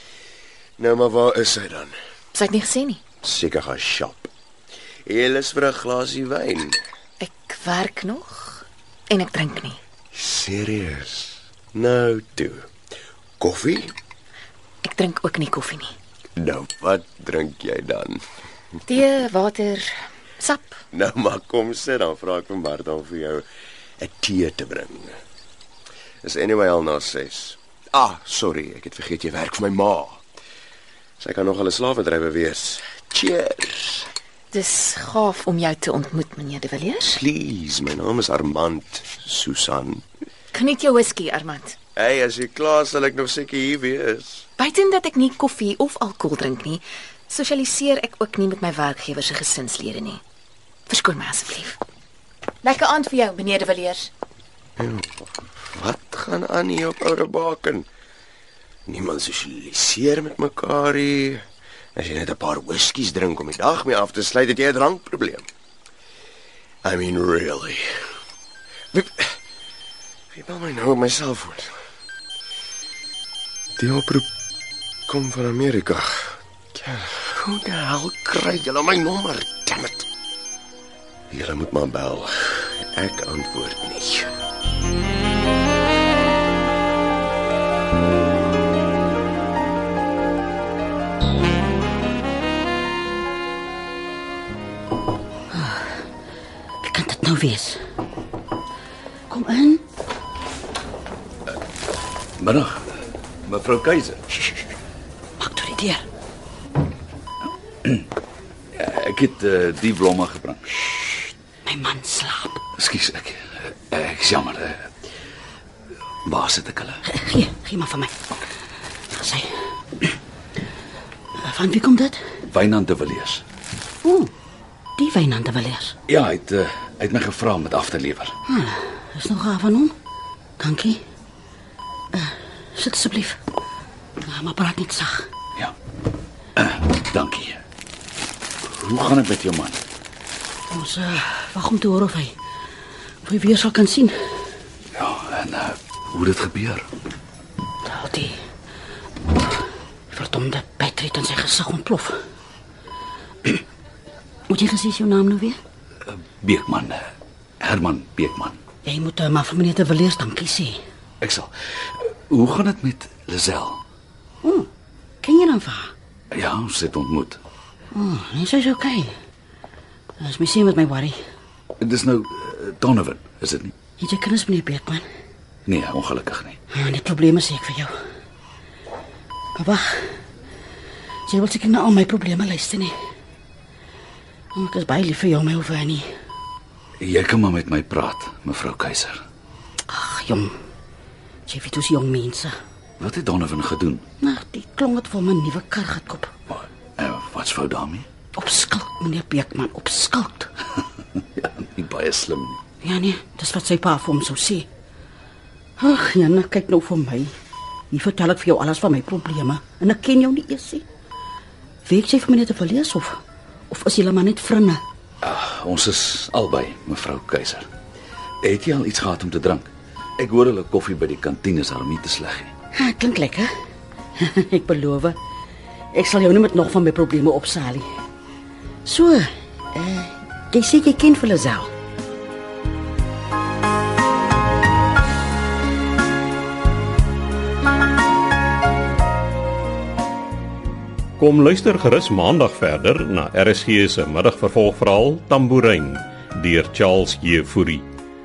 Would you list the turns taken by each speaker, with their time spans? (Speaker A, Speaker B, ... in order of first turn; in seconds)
Speaker A: 0.8-1.9, 3.2-4.3, 5.1-6.8, 10.1-12.7, 13.4-13.9, 16.4-18.2, 20.9-23.4, 24.0-25.2, 26.2-30.2, 31.2-34.1, 37.1-40.0, 42.0-44.5, 54.8-57.9, 58.9-61.4, 62.0-65.5, 66.8-67.8, 68.9-69.3, 70.3-71.7, 73.8-74.3, 75.1-80.1, 81.3-84.3
Speaker B: 2.3-3.0, 7.2-9.8, 14.8-15.9, 18.9-20.8, 34.5-37.2, 40.5-41.8, 44.6-50.2, 50.9-51.8, 52.6-54.1
Speaker C: 95.5-96.0, 96.8-97.8, 99.3-99.8, 105.4-106.1, 111.7-112.6, 117.0-118.1, 119.1-119.5, 121.4-122.2, 124.0-124.3, 125.0-126.0, 128.5-129.9, 130.6-131.0, 132.1-133.4, 134.2-135.3, 140.7-142.3, 143.2-144.1, 147.8-148.4, 150.1-152.2, 154.5-155.6, 158.8-160.8, 164.4-164.7, 165.2-165.9, 167.9-169.1, 170.2-171.2, 174.0-175.1, 176.7-177.9, 179.6-180.0, 181.3-182.9, 184.5-186.1, 189.9-190.5, 191.5-192.5, 194.2-196.3, 198.3-200.5, 202.8-204.7, 205.8-207.3, 207.9-210.8, 211.8-213.2, 213.7-214.8, 222.7-223.5, 224.2-225.2, 225.9-227.9, 228.8-231.7
Speaker D: 102.4-102.8, 103.5-104.2, 108.8-111.2, 112.8-114.9, 116.2-117.0, 122.5-123.4, 126.1-128.3, 136.6-137.6, 138.7-139.8, 144.9-146.9, 156.1-157.1, 157.6-158.6, 161.2-163.8, 166.3-167.4, 171.8-173.7, 175.7-176.6, 187.0-189.2, 193.0-194.1, 196.5-198.1, 201.2-202.6, 215.2-217.7, 218.4-222.5
Speaker E: 241.2-247.8